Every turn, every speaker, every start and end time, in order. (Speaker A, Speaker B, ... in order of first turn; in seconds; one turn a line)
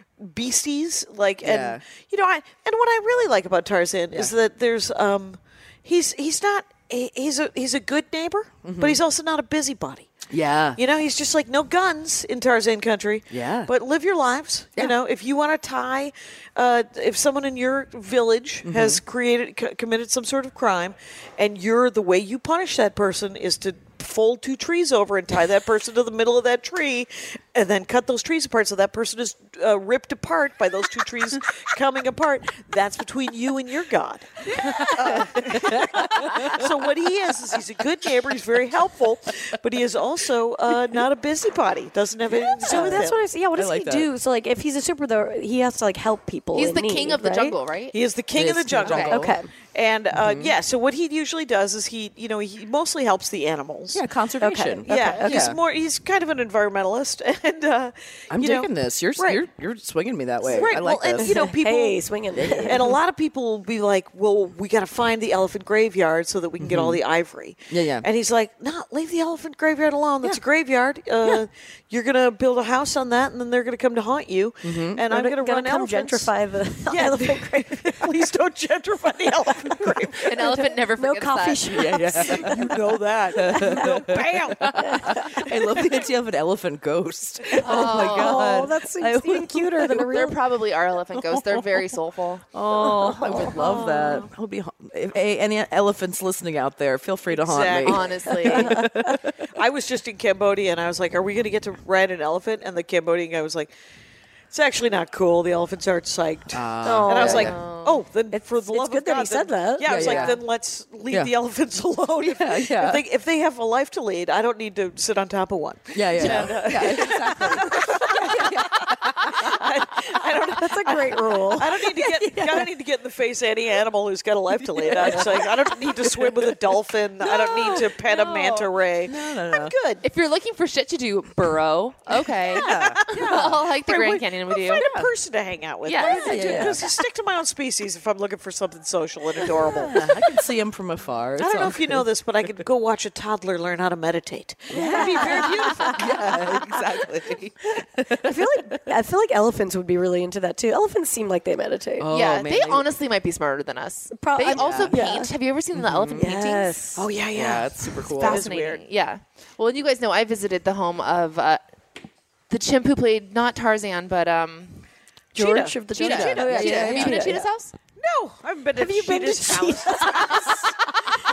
Speaker A: 0.2-10.1
Speaker B: 1.4-1.8
Speaker B: 8.6-9.0
Speaker B: 10.3-10.8
Speaker A: 10.8-43.2
Speaker B: 13.3-13.7
Speaker B: 18.6-19.0
Speaker B: 34.5-36.7
Speaker C: 42.3-47.5
Speaker B: 42.6-44.1
Speaker D: 46.5-48.0
Speaker A: 47.9-54.0
Speaker B: 48.4-49.4
Speaker D: 48.8-49.2
Speaker C: 49.1-49.5
Speaker B: 50.1-50.5
Speaker B: 53.9-55.6
Speaker C: 54.4-55.5
Speaker A: 54.9-59.4
Speaker B: 58.3-61.4
Speaker A: 60.4-62.0
Speaker C: 61.2-63.0
Speaker B: 62.3-63.0
Speaker A: 62.7-76.3
Speaker B: 66.6-67.0
Speaker B: 67.7-68.1
Speaker B: 74.6-75.0
Speaker C: 75.1-78.1
Speaker A: 76.9-80.4
Speaker D: 80.2-81.7
Speaker C: 80.3-82.8
Speaker B: 81.7-90.4
Speaker A: 82.2-85.4
Speaker C: 83.3-83.9
Speaker C: 84.8-85.5
Speaker C: 87.6-90.4
Speaker D: 87.7-88.5
Speaker D: 90.0-92.5
Speaker B: 90.9-92.0
Speaker B: 92.5-99.4
Speaker C: 92.8-93.8
Speaker A: 93.5-94.2
Speaker A: 97.3-98.8
Speaker D: 97.8-98.8
Speaker C: 98.5-99.1
Speaker A: 99.5-103.7
Speaker A: 104.5-130.0
Speaker B: 106.5-107.5
Speaker C: 106.8-107.5
Speaker D: 107.2-108.0
Speaker C: 108.3-110.3
Speaker B: 109.8-110.5
Speaker B: 112.2-113.0
Speaker B: 115.9-119.6
Speaker C: 120.5-122.6
Speaker B: 124.6-129.8
Speaker D: 130.0-134.9
Speaker B: 132.4-133.5
Speaker A: 132.6-140.1
Speaker B: 134.8-135.1
Speaker D: 135.9-136.5
Speaker B: 136.0-136.9
Speaker C: 136.3-136.6
Speaker B: 139.5-142.5
Speaker A: 141.4-146.4
Speaker C: 144.7-147.0
Speaker B: 144.7-148.9
Speaker C: 148.2-152.1
Speaker B: 152.0-152.8
Speaker D: 152.1-156.7
Speaker C: 154.1-155.3
Speaker B: 154.5-155.0
Speaker B: 155.7-156.3
Speaker C: 156.2-157.1
Speaker A: 156.9-158.8
Speaker B: 157.3-158.5
Speaker D: 158.1-161.6
Speaker D: 162.5-164.9
Speaker A: 165.3-165.8
Speaker C: 165.3-167.5
Speaker D: 165.9-167.7
Speaker B: 166.0-167.3
Speaker A: 168.0-170.7
Speaker C: 168.8-170.8